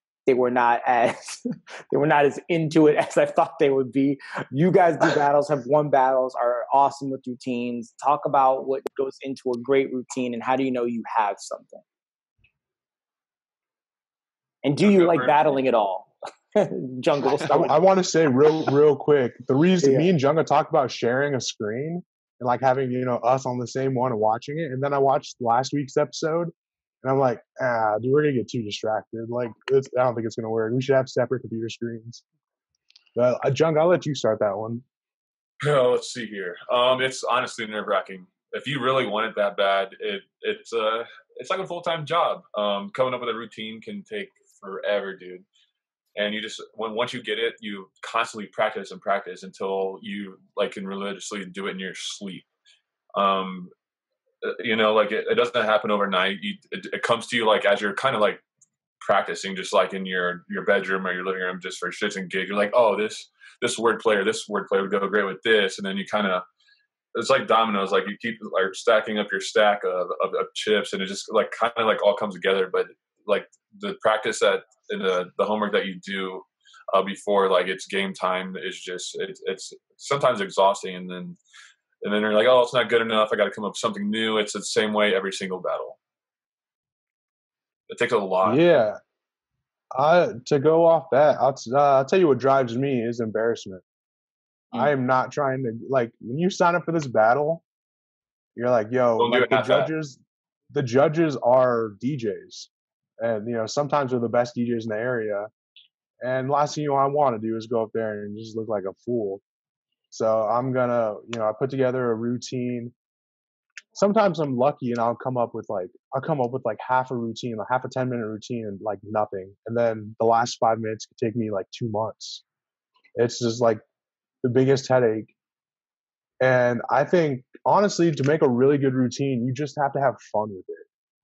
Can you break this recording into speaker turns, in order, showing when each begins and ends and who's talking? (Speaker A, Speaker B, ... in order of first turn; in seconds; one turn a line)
Speaker A: 0.3-11.8
Speaker A: 14.6-17.8
Speaker B: 14.8-15.6
Speaker C: 17.5-32.2
Speaker A: 19.8-20.1
Speaker C: 33.1-34.8
Speaker B: 35.6-45.4
Speaker B: 46.1-52.5
Speaker B: 53.1-53.7
Speaker B: 54.4-58.4
Speaker B: 59.0-66.5
Speaker B: 67.1-81.4
Speaker B: 82.0-86.0
Speaker B: 87.9-88.6
Speaker C: 88.4-89.0
Speaker C: 89.9-93.8
Speaker C: 94.7-97.6
Speaker C: 98.5-100.2
Speaker B: 99.2-99.9
Speaker C: 100.7-102.7
Speaker C: 103.2-105.5
Speaker C: 106.2-109.4
Speaker C: 110.1-112.9
Speaker C: 113.9-122.4
Speaker C: 123.2-123.8
Speaker C: 124.4-125.3
Speaker C: 126.4-130.8